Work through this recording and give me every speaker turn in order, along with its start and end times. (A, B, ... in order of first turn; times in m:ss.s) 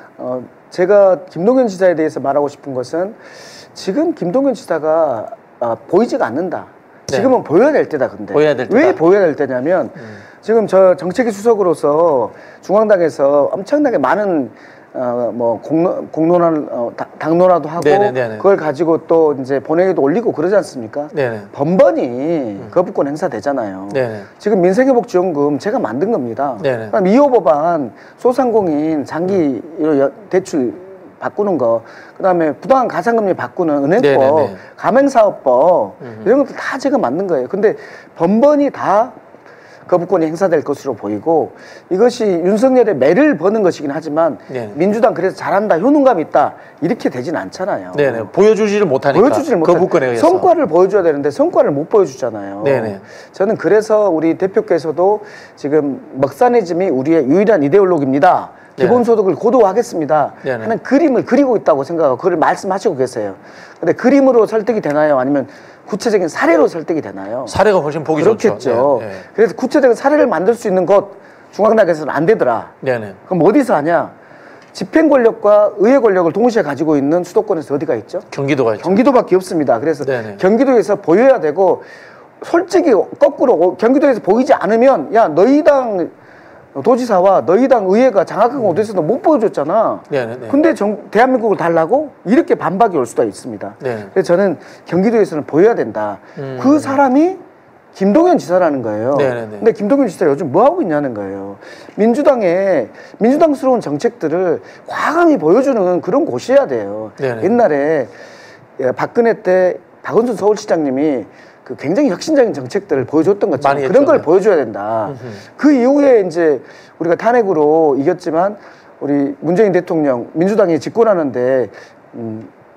0:00.2-0:03.2 A
0:03.7-0:39.2 A
0:08.3-0:09.0 B
0:17.8-0:18.4 B
0:21.1-0:21.5 B
0:23.9-0:24.3 B
0:26.6-0:26.9 B
0:34.0-0:34.6 B
0:36.0-0:36.3 B
0:39.9-0:48.3 A
0:44.5-0:44.8 B
0:47.9-0:50.5 B
0:49.1-1:07.5 A
0:52.6-0:53.0 B
0:58.8-0:59.0 B
1:00.4-1:00.7 B
1:07.4-1:09.2 B
1:08.2-1:12.7 A
1:12.8-1:13.2 B
1:13.2-1:14.1 A
1:14.7-1:18.3 A
1:18.3-1:19.0 B
1:18.8-1:21.8 A
1:20.0-1:20.4 B
1:22.4-1:26.1 A
1:26.7-1:37.4 A
1:30.1-1:30.6 B
1:33.8-1:34.1 B
1:36.4-1:37.0 B
1:37.9-1:48.1 A
1:39.1-1:39.6 B
1:47.2-1:47.5 B
1:48.8-2:02.5 A
1:53.6-1:54.3 B
1:55.1-1:55.4 B